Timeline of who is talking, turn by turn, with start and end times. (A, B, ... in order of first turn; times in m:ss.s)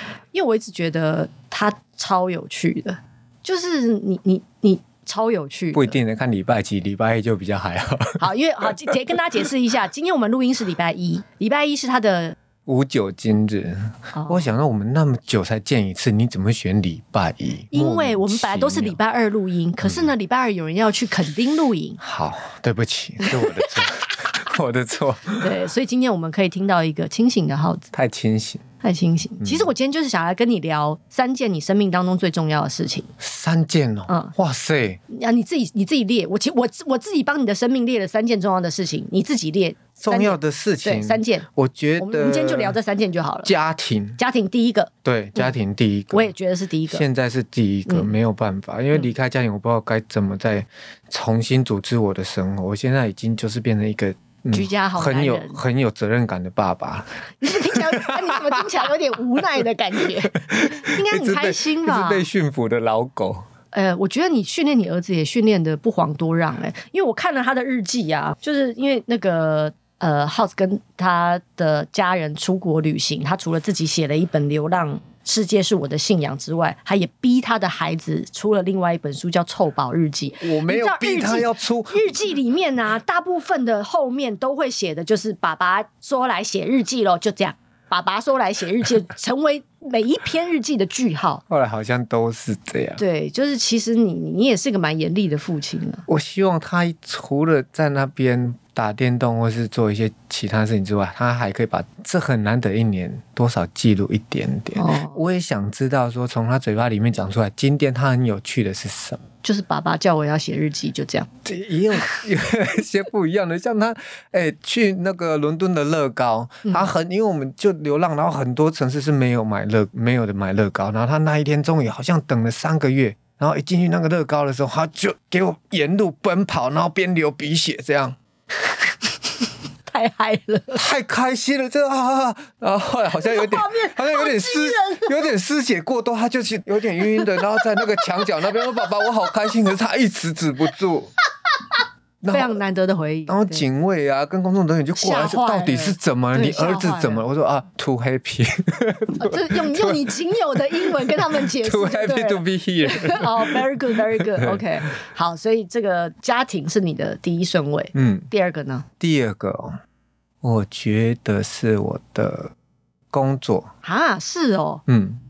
0:00.3-0:06.0 A
0:05.7-0:08.2 B
0:08.2-0:12.4 A
0:12.7-0:19.0 B
0:14.1-0:14.5 A
0:17.7-0:22.0 A
0:19.8-0:20.1 B
0:22.0-0:25.5 B
0:23.2-0:23.7 A
0:25.4-0:27.9 A
0:27.9-0:28.6 B
0:28.8-0:33.1 A
0:29.4-0:29.7 B
0:33.2-0:35.0 B
0:35.1-0:41.5 A
0:40.0-0:42.8 B
0:42.0-0:43.5 A
0:43.4-0:44.2 B
0:44.2-0:45.5 A
0:45.0-0:46.3 B
0:46.1-0:47.0 A
0:46.9-0:58.9 B
0:47.9-0:48.1 A
0:54.5-0:55.6 A
0:57.4-1:02.3 A
1:00.0-1:03.4 B
1:03.7-1:31.4 A
1:20.4-1:22.2 B
1:31.5-1:33.0 B
1:33.0-1:36.1 A
1:36.1-1:49.2 B
1:44.8-1:45.2 A
1:49.4-1:51.3 A
1:51.4-2:08.2 B
1:56.6-1:56.9 A
2:09.9-2:10.8 A
2:10.7-2:21.1 B
2:13.2-2:15.1 A
2:17.2-2:18.9 A
2:22.2-2:22.6 B
2:22.3-2:23.6 A
2:23.3-2:30.1 B
2:25.0-2:27.2 A
2:29.2-2:38.9 A
2:30.7-2:34.7 B
2:37.9-2:38.3 B
2:39.0-2:39.8 B
2:40.4-2:42.5 B
2:43.1-2:43.7 B
2:43.8-2:44.8 A
2:44.9-2:45.2 B